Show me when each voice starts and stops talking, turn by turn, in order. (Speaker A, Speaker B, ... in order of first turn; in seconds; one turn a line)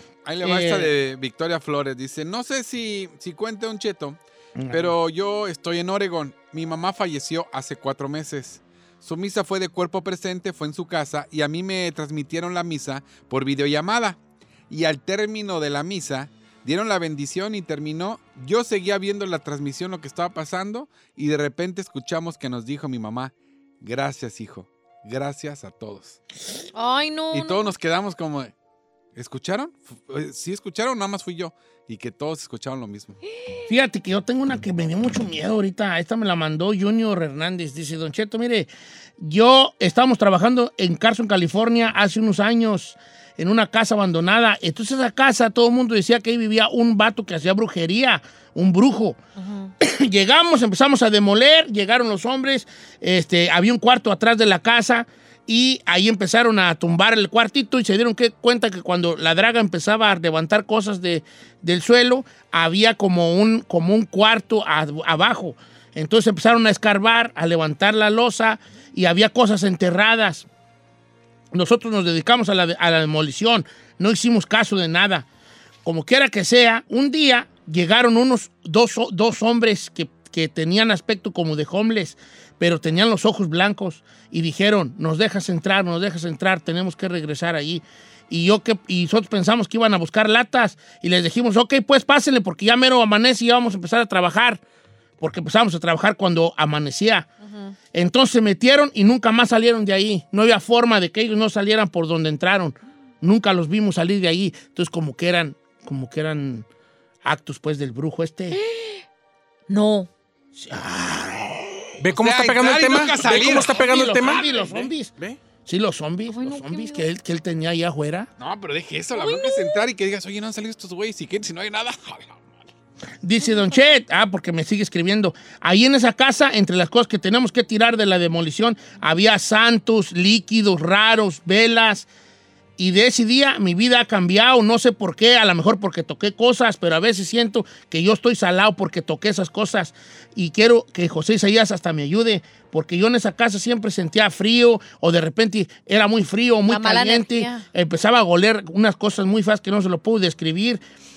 Speaker A: 0.2-4.2
Speaker B: 0.4-0.9
Speaker B: 4.6-5.0
Speaker A: 4.7-14.2
Speaker A: 14.7-26.2
Speaker C: 26.7-27.7
Speaker A: 27.3-28.5
Speaker A: 29.1-33.2
Speaker B: 33.7-49.2
Speaker C: 49.4-49.7
Speaker B: 49.8-70.5
Speaker B: 71.5-75.3
Speaker B: 75.8-94.6
Speaker B: 95.2-97.3
Speaker B: 97.9-106.7
Speaker B: 107.2-108.6
Speaker C: 108.5-109.0
Speaker C: 109.7-110.1
Speaker B: 110.5-112.0
Speaker D: 112.0-114.5
Speaker A: 112.2-114.2
Speaker B: 112.9-115.1
Speaker B: 115.7-118.3
Speaker C: 116.3-117.0
Speaker A: 118.4-122.5
Speaker C: 119.1-119.8
Speaker B: 123.2-132.1
Speaker B: 132.8-150.8
Speaker C: 146.7-147.6